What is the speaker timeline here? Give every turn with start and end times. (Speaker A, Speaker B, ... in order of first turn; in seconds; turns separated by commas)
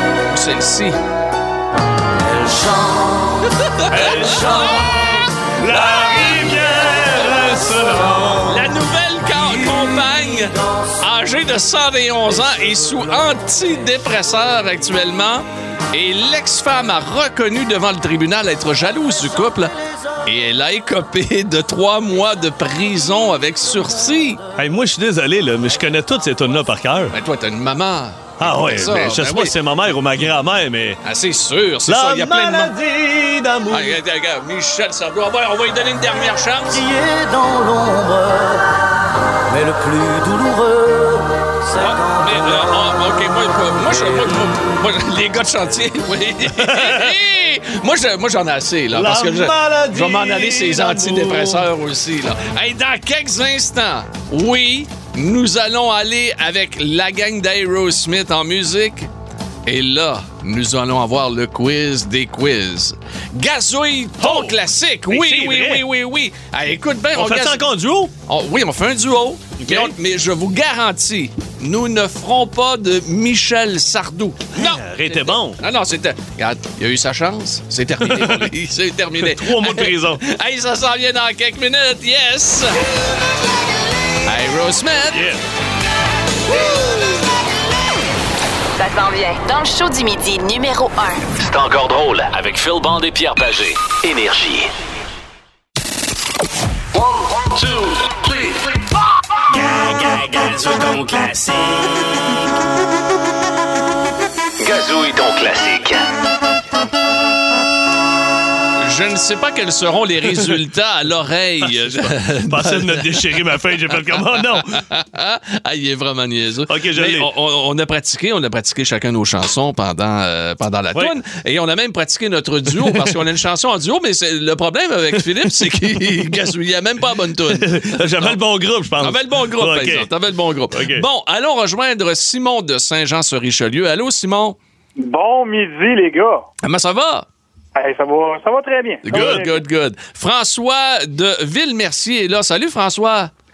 Speaker A: 0.3-1.0, Speaker A: 3.7-5.0, Speaker B: 3.9-5.0, Speaker B: 5.5-8.6, Speaker A: 8.5-24.4, Speaker B: 24.6-27.1, Speaker A: 27.1-29.5, Speaker B: 28.4-31.0, Speaker A: 31.0-32.7, Speaker B: 31.9-34.0, Speaker A: 33.7-36.8, Speaker C: 36.7-38.7, Speaker C: 39.5-42.6, Speaker A: 41.8-59.1, Speaker B: 46.5-47.1, Speaker B: 48.9-51.7, Speaker A: 59.6-67.6, Speaker B: 64.2-64.5, Speaker B: 65.1-65.9, Speaker B: 67.1-68.1, Speaker A: 68.2-82.8, Speaker B: 69.6-69.9, Speaker B: 74.5-75.6, Speaker B: 78.0-78.5, Speaker B: 79.2-80.2, Speaker A: 84.2-85.2, Speaker B: 85.1-85.4, Speaker D: 88.8-91.3, Speaker E: 91.4-94.7, Speaker E: 97.5-98.5, Speaker E: 104.6-106.0, Speaker A: 108.8-113.3, Speaker B: 111.8-114.8, Speaker A: 114.5-128.4, Speaker B: 116.7-117.3, Speaker B: 122.8-123.1, Speaker B: 127.5-130.1, Speaker A: 129.0-134.6, Speaker B: 130.7-131.0, Speaker F: 135.0-136.4, Speaker A: 136.6-137.2, Speaker F: 137.7-139.6, Speaker A: 139.0-143.3, Speaker B: 139.1-139.4